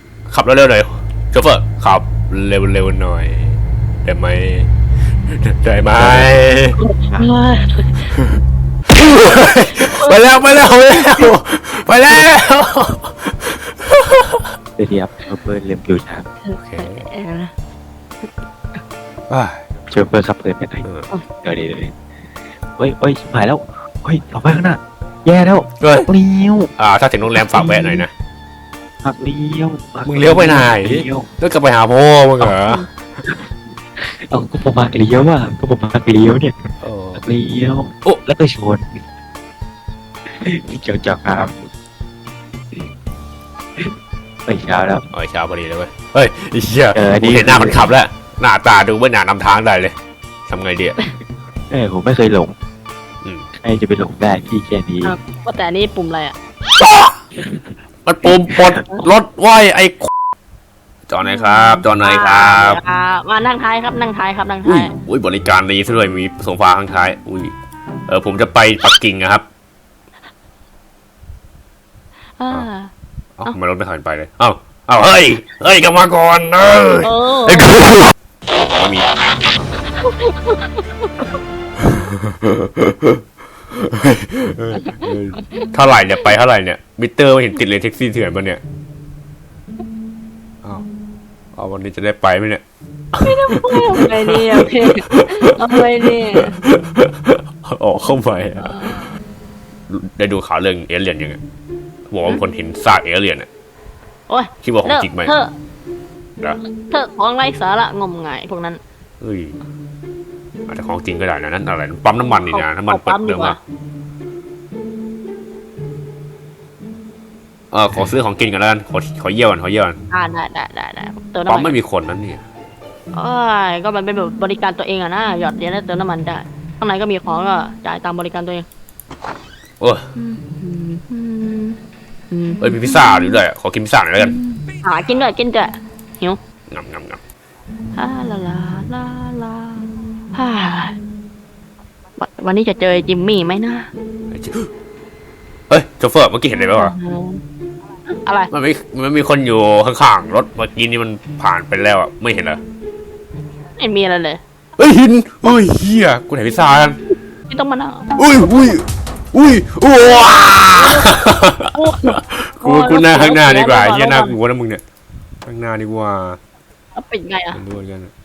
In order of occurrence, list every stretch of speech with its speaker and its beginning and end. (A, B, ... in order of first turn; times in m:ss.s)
0:00.3-0:04.7 A
0:05.3-0:06.8 A
0:06.0-0:06.3 B
0:06.8-0:08.1 C
0:08.9-0:14.4 A
0:09.8-0:10.1 C
0:14.8-0:16.3 B
0:16.4-0:17.5 C
0:16.6-0:17.1 A
0:19.3-0:19.6 A
0:19.9-0:20.9 B
0:21.4-0:22.0 B
0:22.8-0:26.7 B
0:25.8-0:26.1 A
0:26.8-0:28.1 A
0:27.4-0:28.0 B
0:29.0-0:31.3 B
0:30.0-0:32.8 A
0:34.0-0:39.0 B
0:36.8-0:37.2 A
0:40.3-0:41.7 B
0:44.5-0:45.1 B
0:45.1-0:50.0 A
0:46.9-0:47.9 B
0:50.5-0:51.0 A
0:51.7-0:52.6 B
0:53.5-0:55.2 B
0:55.0-0:56.4 C
0:56.8-0:57.1 A
0:57.4-0:57.7 B
0:58.1-1:00.1 A
0:58.5-0:59.0 B
1:01.1-1:02.8 A
1:01.2-1:04.9 C
1:04.6-1:07.5 A
1:08.1-1:09.4 A
1:12.4-1:12.9 C
1:13.4-1:18.1 A
1:17.0-1:17.7 C
1:18.8-1:19.0 A
1:20.0-1:20.8 C
1:21.8-1:23.2 A
1:23.7-1:28.6 A
1:24.9-1:25.7 C
1:31.6-1:32.6 A
1:33.1-1:35.8 A
1:33.2-1:36.6 C
1:36.4-1:39.1 A
1:38.6-1:39.0 C
1:39.9-1:41.4 A
1:42.1-1:43.5 A
1:44.3-1:45.5 C
1:44.6-1:45.3 A
1:46.9-1:48.8 C
1:49.2-1:49.6 A
1:50.7-1:53.6 A
1:52.2-1:53.6 C
1:57.7-2:00.0 A
2:00.1-2:01.8 C
2:01.5-2:02.4 A
2:03.1-2:08.7 C
2:09.8-2:10.1 A
2:10.2-2:11.8 C
2:12.3-2:13.4 C
2:12.6-2:14.4 A
2:14.2-2:16.4 C
2:16.7-2:17.2 A
2:17.9-2:21.0 C
2:22.2-2:23.9 C
2:24.3-2:24.7 A
2:25.7-2:27.0 A
2:26.5-2:27.4 C
2:28.1-2:28.5 C
2:28.5-2:32.6 A
2:33.8-2:34.4 C
2:34.8-2:37.0 A
2:37.5-2:38.2 C
2:38.2-2:44.8 A
2:40.7-2:41.2 C
2:41.7-2:44.4 C
2:45.5-2:46.4 A
2:47.0-2:47.6 C
2:47.5-2:48.1 A